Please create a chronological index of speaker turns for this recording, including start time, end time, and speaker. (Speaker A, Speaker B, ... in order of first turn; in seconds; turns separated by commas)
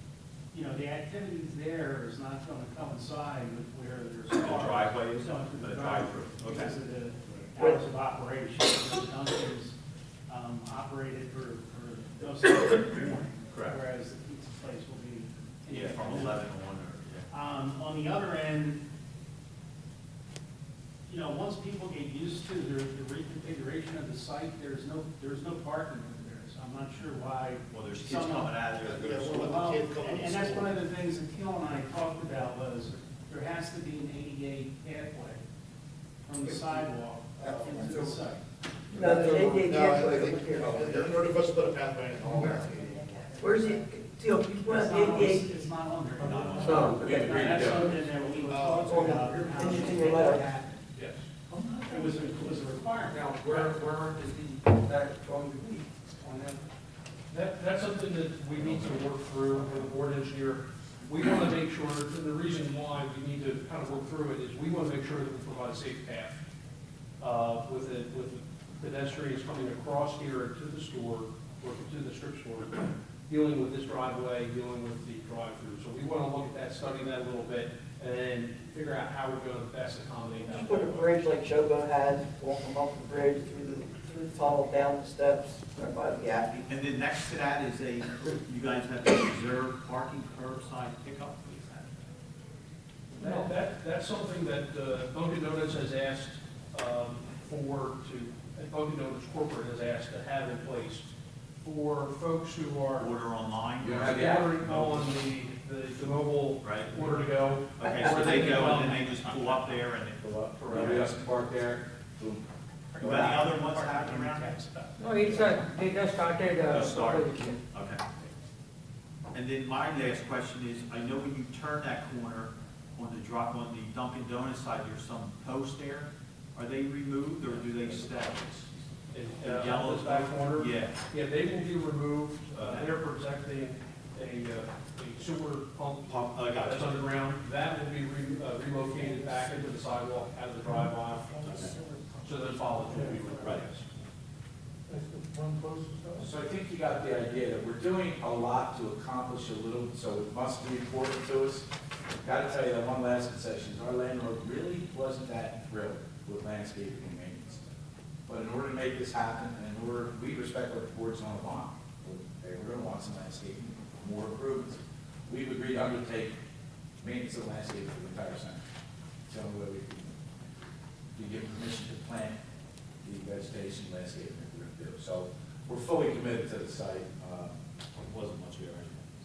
Speaker A: 0.5-9.7, Speaker B: 4.3-6.8, Speaker A: 10.3-16.4, Speaker B: 13.5-13.8, Speaker B: 15.7-17.3, Speaker A: 17.3-18.8, Speaker A: 21.1-35.4, Speaker B: 27.7-29.6, Speaker C: 28.8-30.8, Speaker A: 36.2-38.4, Speaker D: 36.4-38.2, Speaker C: 37.4-37.9, Speaker E: 38.9-41.1, Speaker D: 38.9-39.7, Speaker C: 39.6-43.4, Speaker D: 40.6-41.0, Speaker E: 43.2-45.4, Speaker A: 44.6-50.8, Speaker B: 46.2-47.0, Speaker E: 46.7-47.0, Speaker F: 47.0-48.0, Speaker C: 48.1-50.2, Speaker E: 48.8-50.4, Speaker A: 51.5-53.7, Speaker D: 53.0-56.6, Speaker G: 57.3-66.4, Speaker G: 67.2-81.0, Speaker E: 80.5-86.7, Speaker B: 86.7-92.0, Speaker G: 93.2-101.0, Speaker H: 93.2-93.5, Speaker G: 101.6-103.1, Speaker B: 103.0-105.1, Speaker F: 103.8-104.5, Speaker G: 104.0-109.2, Speaker B: 106.6-106.9, Speaker B: 107.8-111.1, Speaker A: 109.3-109.8, Speaker F: 110.2-112.4, Speaker G: 110.6-111.0, Speaker A: 112.9-115.5, Speaker B: 113.0-114.5, Speaker F: 113.0-113.5, Speaker H: 115.0-117.6, Speaker B: 116.6-118.0, Speaker B: 119.3-128.7, Speaker G: 129.1-143.8, Speaker B: 129.4-130.9, Speaker B: 132.5-132.9, Speaker B: 136.1-137.0, Speaker B: 141.4-141.7, Speaker B: 143.4-143.6, Speaker H: 144.9-146.2, Speaker F: 146.2-151.7, Speaker F: 152.2-157.7, Speaker F: 158.3-166.4, Speaker F: 167.0-168.6, Speaker F: 169.3-170.2, Speaker F: 171.2-172.4, Speaker F: 173.0-177.6, Speaker B: 178.0-179.1